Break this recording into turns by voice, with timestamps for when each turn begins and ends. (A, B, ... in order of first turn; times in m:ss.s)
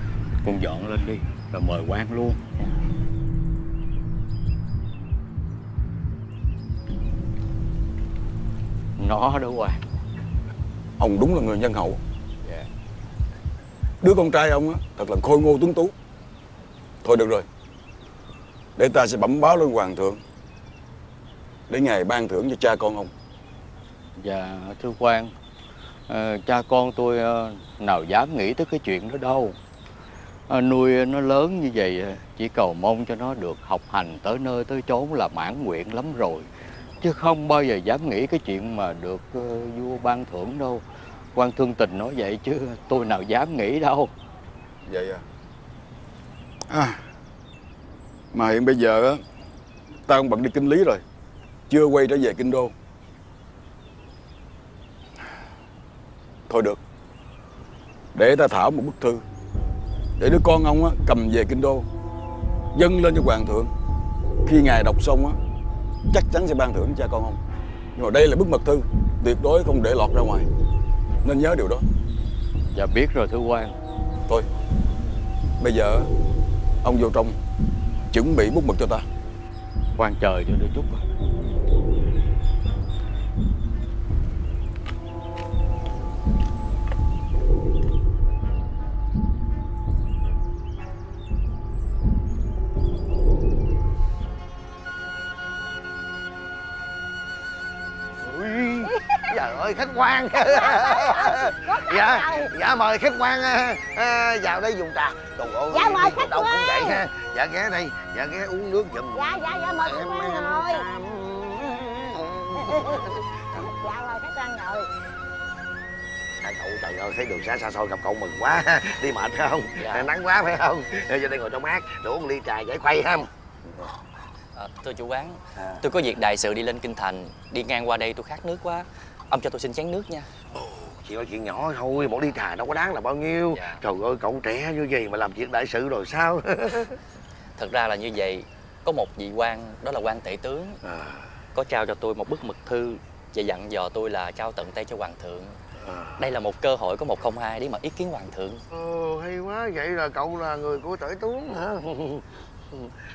0:00.4-0:02.4 A
0:09.0-0:09.8 A
0:11.0-0:12.0 B
0:14.0-0:15.9 B
0:17.0-0:17.5 B
0:18.8-0:20.2 B
0:21.7-0:23.1 B
0:24.2-0:25.3 A
0:26.1-0:29.6 A
0:30.5-0:36.5 A
0:37.0-0:44.1 A
0:44.9-0:45.2 B
0:46.7-0:47.0 B
0:48.3-0:49.2 B
0:50.1-0:51.0 B
0:51.7-0:52.7 B
0:56.5-0:56.8 B
0:58.1-0:59.2 B
1:00.2-1:01.9 B
1:02.8-1:03.7 B
1:04.5-1:05.4 B
1:06.1-1:07.4 B
1:08.0-1:10.5 B
1:11.2-1:11.8 B
1:12.7-1:13.8 A
1:15.6-1:16.1 B
1:16.8-1:17.4 B
1:18.1-1:19.0 B
1:20.0-1:21.0 A
1:38.2-1:53.0 C
1:40.4-1:42.5 D
1:45.7-1:47.0 D
1:49.1-1:50.9 D
1:53.5-1:54.9 D
1:56.4-2:03.3 C
1:59.8-2:00.1 E
2:04.6-2:10.3 E
2:10.6-2:16.9 C
2:13.5-2:13.8 E
2:17.6-2:20.8 E
2:20.9-2:21.2 C
2:21.5-2:25.6 E
2:26.2-2:28.6 E
2:28.7-2:32.2 C